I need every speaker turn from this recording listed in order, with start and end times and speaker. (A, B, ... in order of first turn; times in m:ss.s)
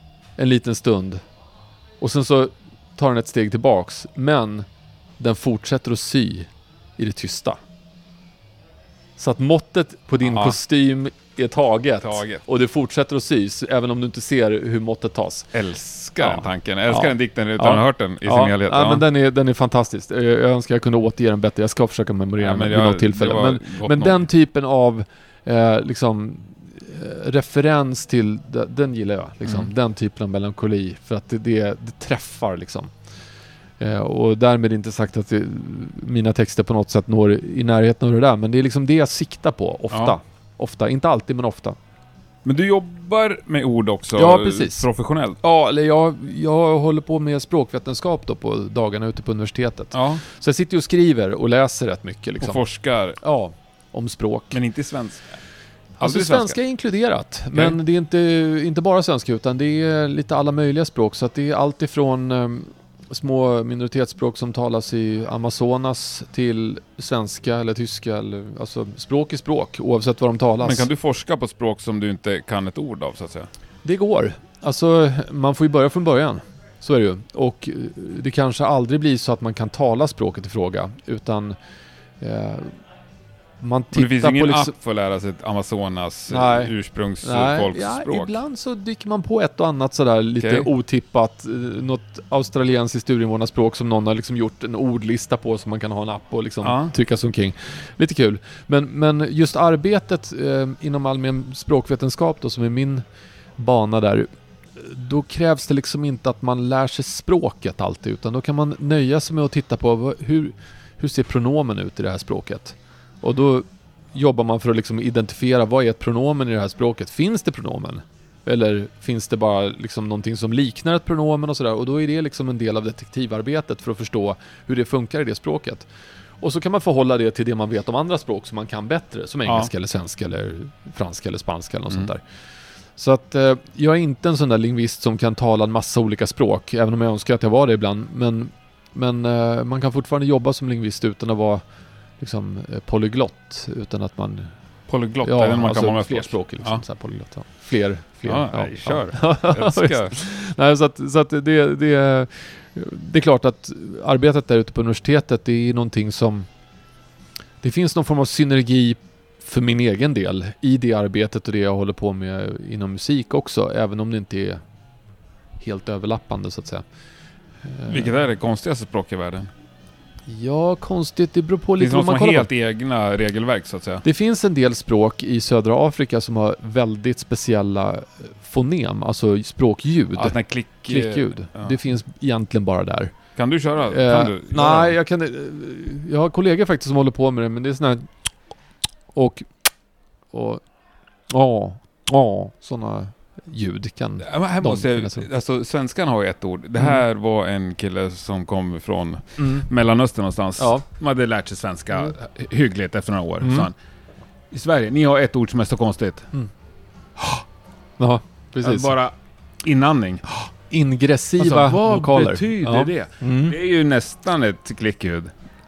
0:00.4-0:01.2 A
0:02.0-0:04.6 A
0:05.2-0:07.6 A
0:09.2-0:15.5 A
0:10.2-0:10.6 B
0:12.0-0:12.4 B
0:15.5-0:19.0 B
0:16.2-0:32.9 A
0:22.4-0:24.2 B
0:29.4-0:29.7 B
0:33.8-0:41.8 A
0:39.9-0:40.2 B
0:42.4-0:45.4 B
0:44.1-0:44.9 A
0:45.4-0:52.6 A
0:49.9-0:50.2 B
0:52.4-0:53.2 B
0:53.2-0:54.6 A
0:54.5-0:55.2 B
0:56.0-0:56.6 B
0:56.0-1:10.9 A
0:57.5-0:57.8 B
1:10.6-1:13.5 B
1:13.8-1:21.6 A
1:22.2-1:22.8 A
1:23.6-1:24.7 A
1:23.9-1:28.4 B
1:26.3-1:43.0 A
1:30.4-1:30.7 B
1:36.6-1:36.9 B
1:43.6-2:05.8 A
2:06.4-2:12.2 A
2:09.4-2:09.7 B
2:13.0-2:21.6 A
2:22.2-2:24.5 A
2:24.9-2:26.8 B
2:25.2-2:36.5 A
2:28.2-2:30.2 B
2:37.6-2:44.6 A
2:45.6-2:46.8 A
2:47.6-2:48.1 A
2:47.9-2:49.5 B
2:50.3-2:52.5 A
2:51.8-2:54.0 B
2:54.0-3:03.1 A
3:00.1-3:01.8 B
3:03.3-3:05.0 B
3:03.8-3:08.1 A
3:09.1-3:09.7 A
3:10.3-3:10.6 A
3:11.3-3:15.2 A
3:14.2-3:23.7 B
3:19.4-3:19.7 A
3:20.6-3:20.8 A
3:23.4-3:23.7 A
3:24.5-3:26.3 B
3:28.0-3:28.9 A
3:28.6-3:30.2 B
3:30.7-3:33.6 A
3:31.4-3:35.3 B